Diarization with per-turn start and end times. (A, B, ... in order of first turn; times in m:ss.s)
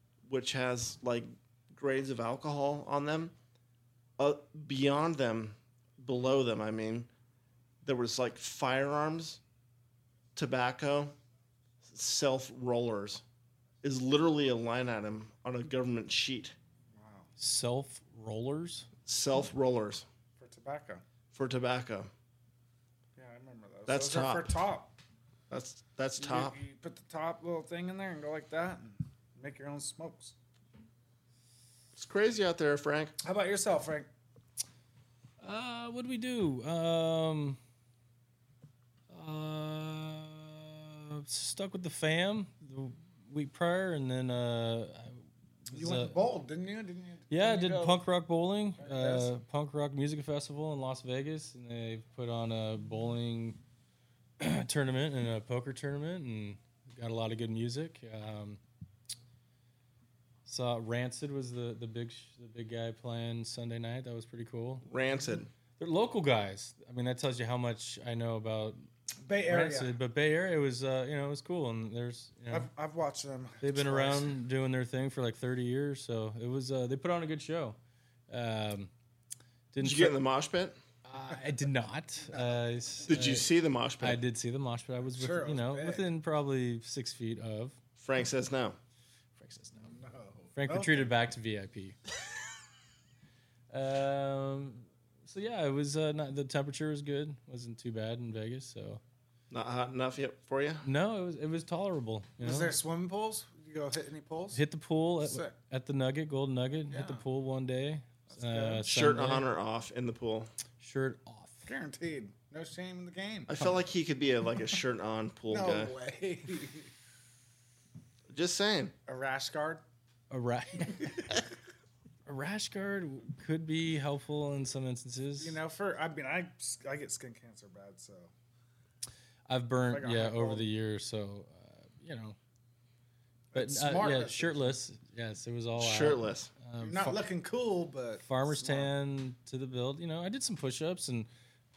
0:00.3-0:03.3 A
0:04.2-0:07.1 A
0:07.8-0:09.4 A
0:10.4-0:11.2 A
0:11.8-0:13.2 A
0:13.8-0:16.6 A
0:17.0-0:17.3 B
0:17.4-0:18.9 C
0:19.1-0:20.1 A
0:20.4-0:21.0 B
0:21.3-0:22.1 A
0:23.2-0:25.0 B
0:23.9-0:24.5 A
0:25.5-0:26.6 A
0:26.2-0:30.4 B
0:32.0-0:33.2 A
0:33.2-0:34.1 B
0:35.4-0:37.6 C
0:39.1-0:46.2 C
0:45.7-0:48.0 B
0:47.3-0:53.6 C
0:48.8-0:49.3 B
0:54.4-0:58.6 C
1:00.5-1:04.9 C
1:04.8-1:05.5 A
1:05.8-1:08.8 C
1:09.2-1:10.0 B
1:09.5-1:12.7 C
1:12.5-1:14.4 B
1:13.6-1:17.8 C
1:18.3-1:18.9 C
1:19.7-1:20.2 C
1:19.8-1:20.8 A
1:21.0-1:23.5 C
1:22.3-1:22.6 B
1:23.1-1:24.2 A
1:24.0-1:27.8 C
1:25.1-1:26.1 B
1:28.0-1:28.8 A
1:29.4-1:29.9 C
1:29.8-1:31.1 B
1:30.6-1:32.0 C
1:33.7-1:39.0 C
1:39.5-1:40.8 A
1:40.8-1:42.8 C
1:42.4-1:44.6 B
1:44.5-1:49.4 C
1:45.2-1:45.5 B
1:46.9-1:47.2 B
1:48.3-1:48.8 B
1:48.8-1:50.5 A
1:50.8-1:51.7 C
1:51.7-1:53.8 B
1:53.5-1:56.0 A
1:55.5-1:56.9 B
1:58.3-1:59.0 A
1:59.1-1:59.8 B
2:00.3-2:01.3 C
2:01.0-2:01.3 B
2:02.3-2:05.6 C
2:05.4-2:08.3 B
2:09.5-2:12.4 C
2:09.9-2:10.7 B
2:13.5-2:14.8 B
2:13.5-2:17.2 C
2:15.8-2:16.5 A
2:16.8-2:18.9 B
2:18.2-2:21.3 C